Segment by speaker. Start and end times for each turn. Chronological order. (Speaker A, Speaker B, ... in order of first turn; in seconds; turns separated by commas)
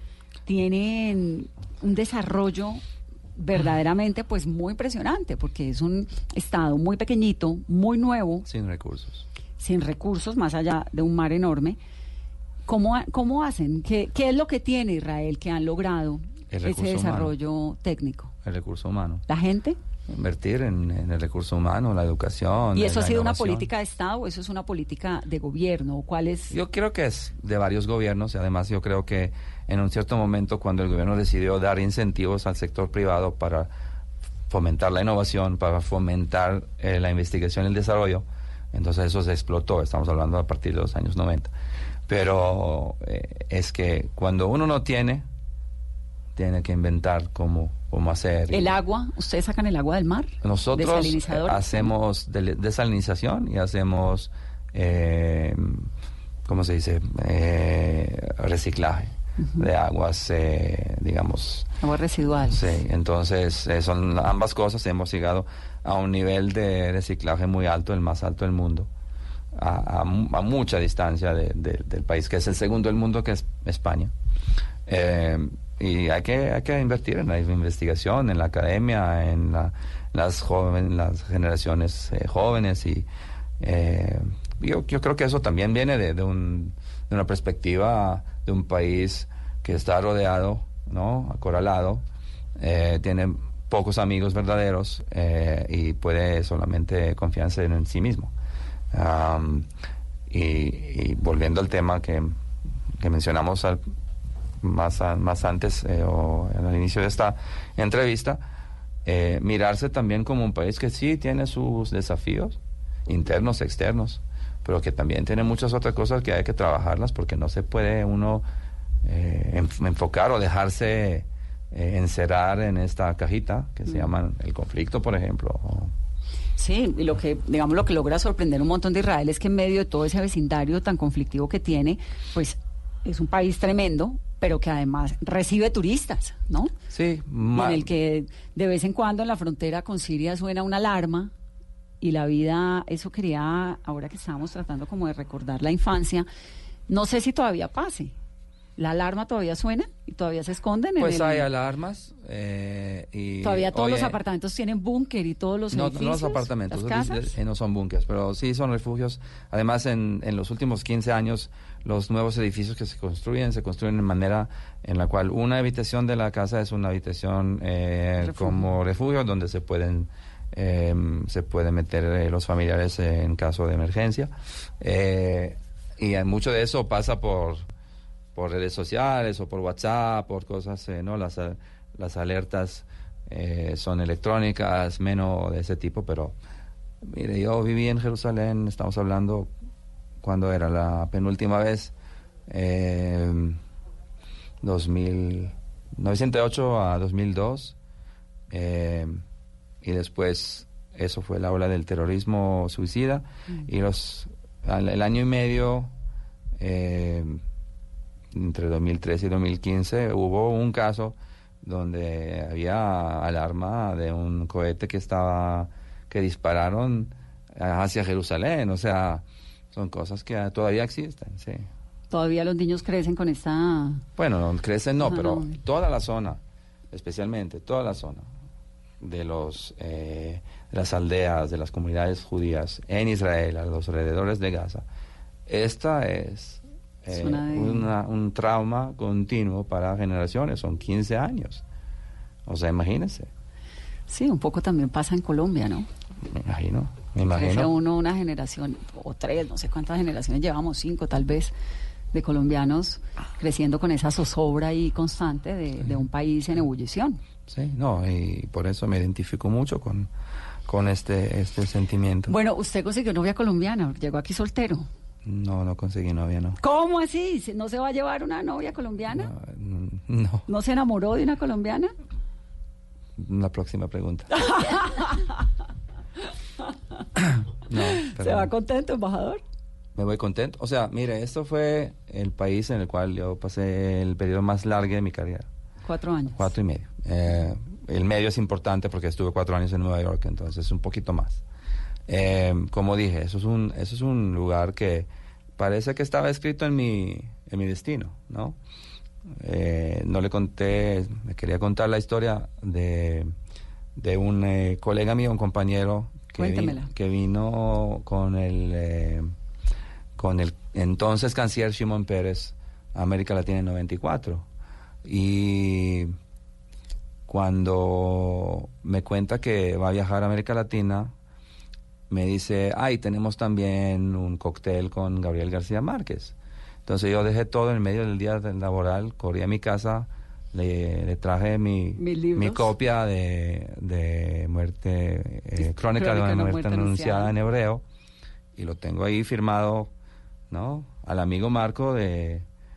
Speaker A: 0.5-2.8, Speaker A: 3.4-8.4, Speaker B: 8.4-9.2, Speaker A: 9.6-11.8, Speaker A: 12.7-18.3, Speaker B: 16.5-17.3, Speaker B: 18.4-19.2, Speaker A: 19.3-19.8, Speaker B: 20.1-23.7, Speaker A: 22.7-26.6, Speaker B: 26.5-33.7, Speaker B: 34.5-41.5, Speaker B: 42.1-45.3, Speaker B: 46.3-48.8, Speaker A: 48.5-51.9, Speaker B: 50.4-55.9, Speaker B: 56.5-61.7, Speaker A: 61.8-62.8, Speaker B: 62.5-68.9, Speaker B: 69.5-74.1, Speaker B: 74.8-83.1, Speaker B: 83.6-92.0, Speaker B: 92.6-98.3, Speaker B: 98.9-99.7, Speaker B: 100.3-102.3, Speaker B: 103.0-103.8, Speaker B: 104.6-108.4, Speaker B: 109.0-118.4, Speaker B: 119.0-125.9, Speaker A: 126.6-136.7, Speaker B: 136.9-137.9, Speaker A: 137.5-141.3, Speaker A: 142.0-146.3, Speaker A: 146.9-148.1, Speaker A: 148.8-151.5, Speaker B: 151.0-154.2, Speaker A: 153.4-157.3, Speaker B: 155.7-177.6, Speaker A: 168.2-168.6, Speaker B: 178.3-186.3, Speaker B: 187.0-189.5, Speaker B: 190.2-191.9, Speaker B: 192.5-193.6, Speaker B: 194.6-197.8, Speaker B: 198.5-199.2, Speaker B: 199.8-205.9, Speaker B: 206.6-207.4, Speaker B: 208.3-221.7, Speaker A: 222.1-224.0, Speaker B: 224.2-226.4, Speaker A: 225.0-225.6, Speaker B: 226.9-228.3, Speaker B: 229.0-234.8, Speaker B: 235.5-241.6, Speaker A: 237.1-237.9, Speaker B: 242.4-243.3, Speaker A: 244.1-245.9, Speaker B: 246.2-247.7, Speaker A: 247.2-251.5, Speaker A: 252.1-257.2, Speaker B: 257.5-260.1, Speaker B: 260.7-262.3, Speaker A: 262.3-264.9, Speaker B: 265.2-266.6, Speaker A: 266.6-269.3, Speaker B: 269.1-270.4, Speaker A: 270.5-271.9, Speaker B: 273.2-274.4, Speaker A: 274.4-275.2, Speaker B: 277.2-278.5, Speaker A: 277.7-279.4, Speaker B: 279.9-285.5, Speaker A: 285.8-286.5, Speaker B: 286.3-291.4, Speaker B: 292.1-298.6, Speaker B: 299.4-303.3, Speaker B: 303.9-309.3, Speaker A: 306.4-306.9, Speaker B: 310.1-314.4, Speaker B: 315.0-316.1, Speaker B: 317.3-321.1, Speaker B: 322.1-326.3, Speaker B: 326.9-337.8, Speaker A: 332.0-332.7, Speaker A: 335.6-337.3, Speaker B: 338.5-339.9, Speaker B: 340.5-342.4